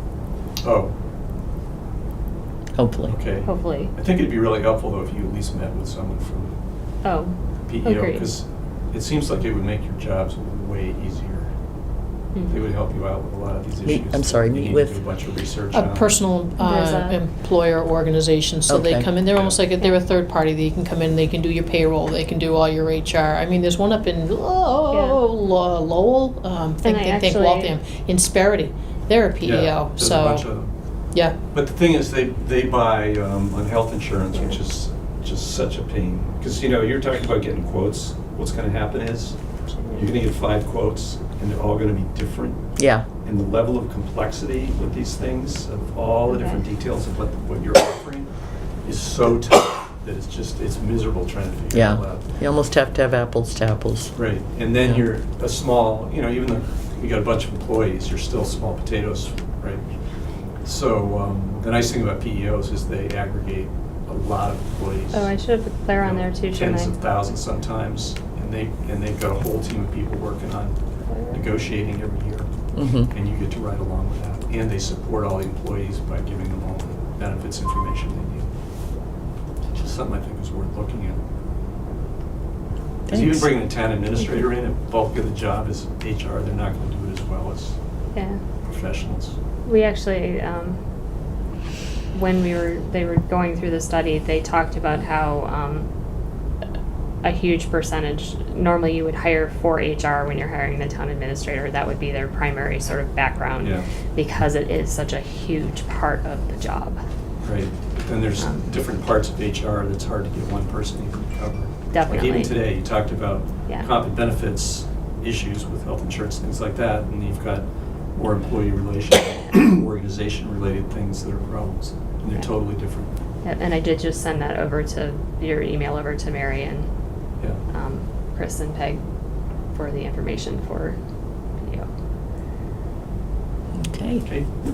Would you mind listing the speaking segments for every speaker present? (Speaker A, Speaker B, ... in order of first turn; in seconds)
Speaker A: 0.6-0.9, 3.1-6.5, 7.7-11.5, 12.5-16.2, 19.3-19.6, 29.4-30.7, 31.5-39.4, 39.9-42.6, 43.2-52.2, 54.1-59.9, 60.6-65.3, 66.0-70.8, 71.3-72.5, 73.1-78.5, 79.7-81.2, 83.1-87.8, 88.7-89.4, 103.6-103.9, 107.4-123.1
Speaker B: 2.8-3.1, 13.8-15.0, 18.7-19.1, 42.8-43.1, 51.7-54.1, 72.8-73.1, 83.1-83.5, 133.8-134.3
Speaker C: 3.5-3.9, 7.0-8.3, 12.3-12.6, 16.6-17.2, 24.9-25.2, 26.8-27.8, 39.7-40.1, 46.3-46.6, 65.1-67.0, 71.1-71.5, 88.1-88.4, 89.7-90.8, 92.1-95.9, 97.2-107.0, 108.4-108.7, 111.9-112.5, 123.4-126.9, 127.7-129.0, 129.7-131.0, 131.6-131.9
Speaker D: 15.7-30.5